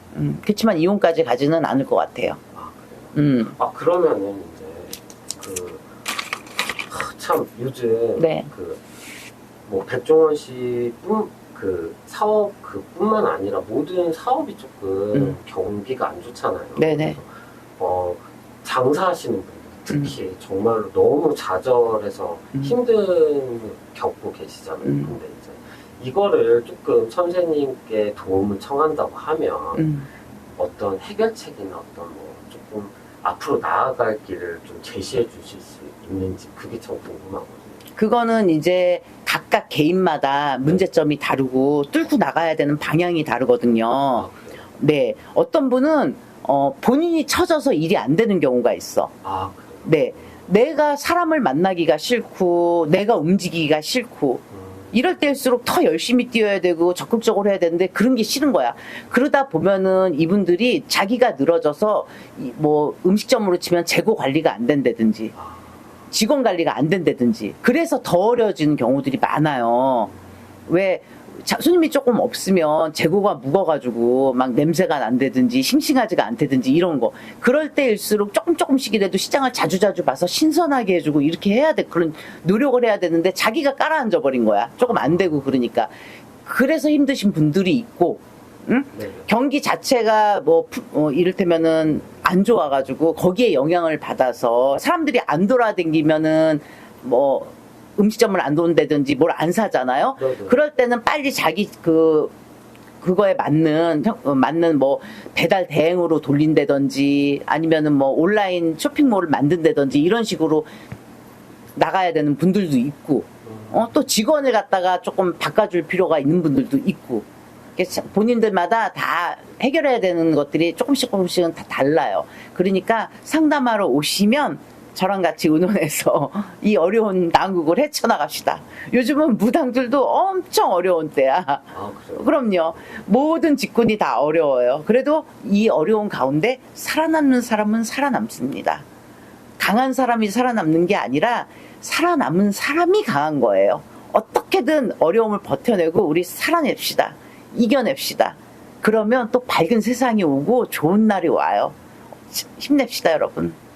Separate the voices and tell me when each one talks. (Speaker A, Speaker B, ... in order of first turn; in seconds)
Speaker A: 0.1-2.4, 3.1-3.5, 8.2-8.5, 16.8-17.2, 19.9-20.1, 24.8-25.1, 29.8-30.1, 38.0-49.1, 49.8-65.3, 66.1-70.1, 70.7-85.9, 86.4-102.3, 103.0-110.7, 111.8-117.2, 117.8-138.8, 139.6-151.8, 152.3-153.6
Speaker B: 2.5-5.8, 6.9-8.8, 9.7-29.9, 30.6-37.8, 44.1-44.7, 49.2-50.4, 54.5-54.9, 65.3-65.8, 84.8-85.4, 88.9-89.3, 100.2-100.6, 113.4-113.9, 131.7-132.9